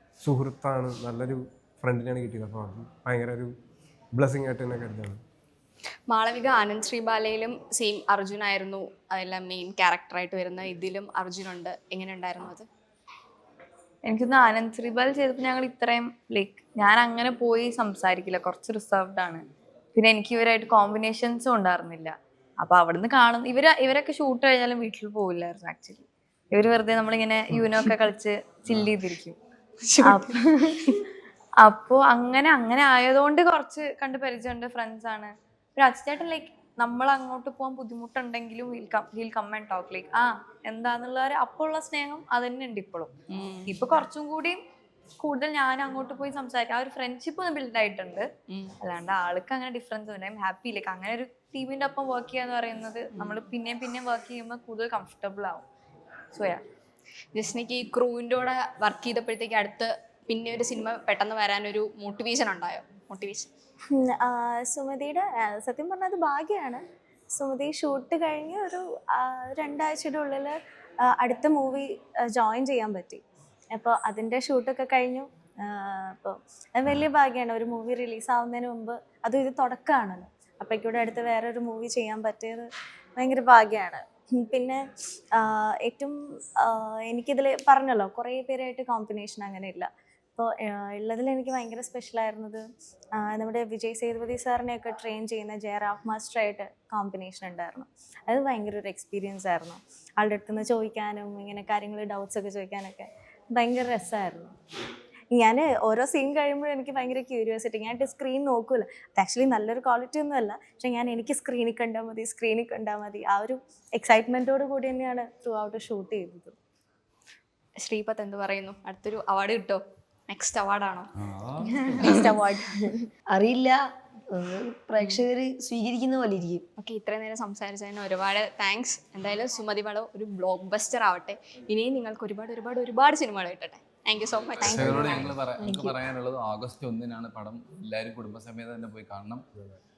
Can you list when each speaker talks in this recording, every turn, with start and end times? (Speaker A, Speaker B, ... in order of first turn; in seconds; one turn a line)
Speaker A: 0.2-3.5
Speaker A: 4.1-5.2
Speaker B: 6.1-12.7
Speaker C: 14.1-19.4
Speaker C: 19.9-29.4
Speaker B: 29.9-31.0
Speaker C: 30.0-30.8
Speaker C: 31.6-43.1
Speaker B: 43.3-43.7
Speaker C: 43.7-44.6
Speaker C: 45.2-48.3
Speaker B: 48.5-48.8
Speaker C: 48.8-55.6
Speaker B: 53.1-53.4
Speaker C: 56.3-56.6
Speaker B: 57.3-63.5
Speaker D: 63.9-70.6
Speaker D: 71.1-73.2
Speaker D: 73.8-84.8
Speaker D: 85.3-92.6
Speaker D: 93.2-104.5
Speaker D: 105.3-116.5
Speaker B: 117.8-121.1
Speaker E: 121.2-122.0
Speaker D: 121.7-123.0
Speaker B: 122.0-122.2
Speaker F: 122.0-122.8
Speaker F: 123.3-123.8
Speaker F: 124.3-126.6
Speaker B: 126.8-135.3
Speaker E: 134.6-139.5
Speaker D: 134.6-135.3
Speaker A: 134.7-135.3
Speaker F: 135.6-136.0